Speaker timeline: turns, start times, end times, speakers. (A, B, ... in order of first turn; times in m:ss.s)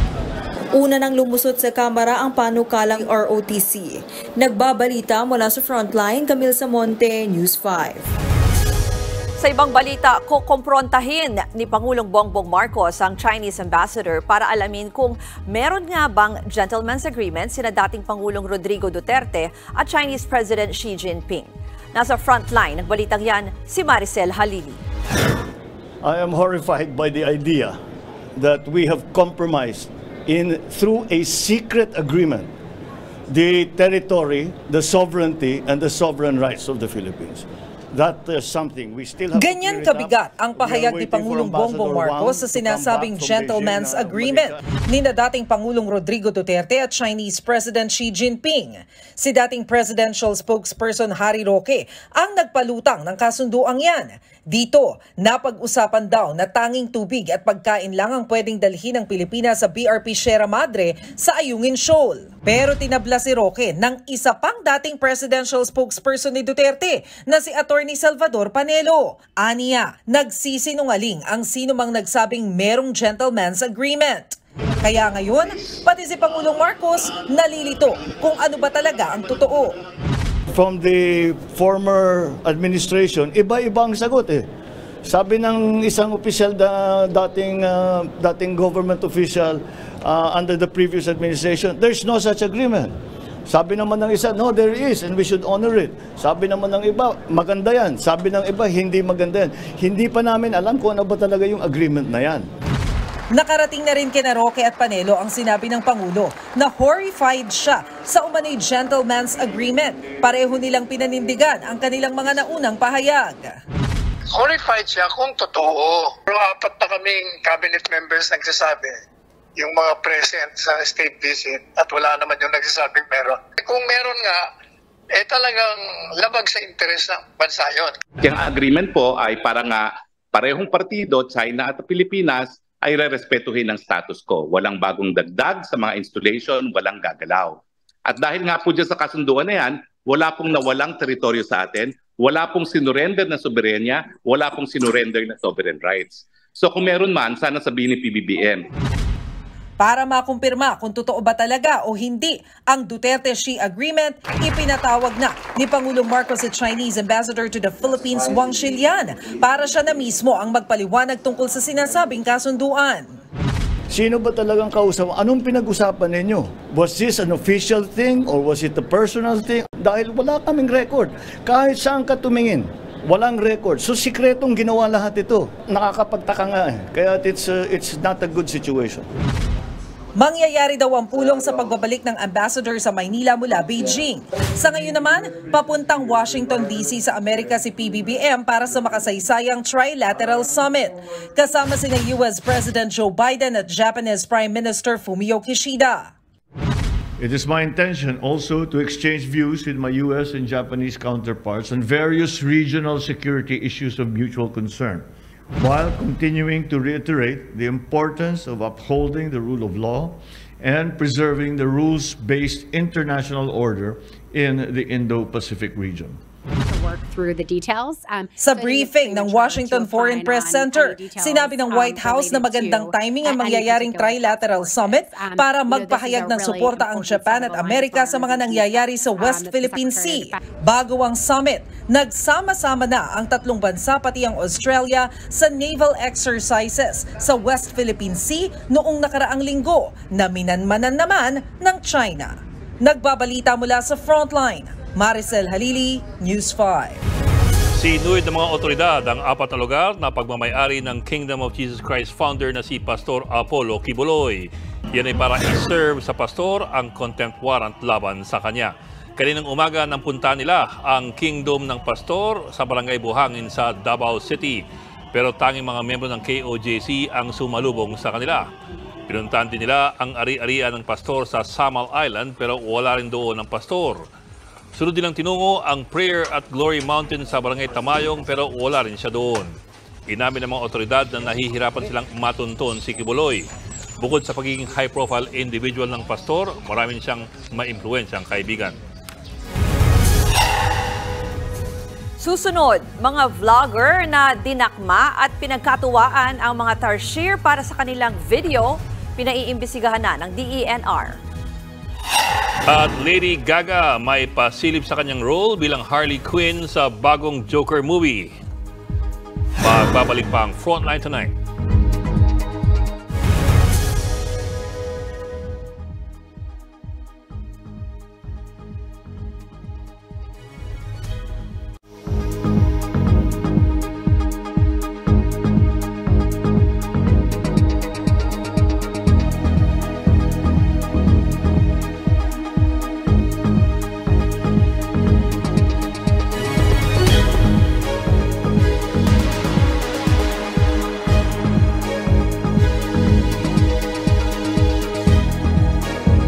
0:00.7-0:08.1 A
0:09.4-0:24.8 B
0:26.0-0:27.8 C
0:28.4-0:32.5 C
0:33.3-0:44.6 C
0:39.3-1:19.7 D
1:20.5-1:24.4 C
1:25.0-1:33.0 C
1:33.5-1:42.4 C
1:43.3-1:53.5 D
1:54.3-1:59.0 E
1:59.6-2:04.4 E
2:05.1-2:08.0 E
2:08.2-2:28.6 F
2:29.8-2:43.2 D
2:43.9-2:59.1 C
3:00.2-3:16.1 D
3:17.2-3:36.2 C
3:36.5-3:50.4 G
3:38.4-4:07.0 D
4:07.8-4:24.6 H
4:25.1-4:28.4 H
4:29.1-4:34.0 H
4:34.8-4:39.5 H
4:40.1-4:43.4 H
4:44.0-4:48.7 H
4:52.2-5:01.2 B
5:02.7-5:08.3 H
5:09.6-5:11.3 H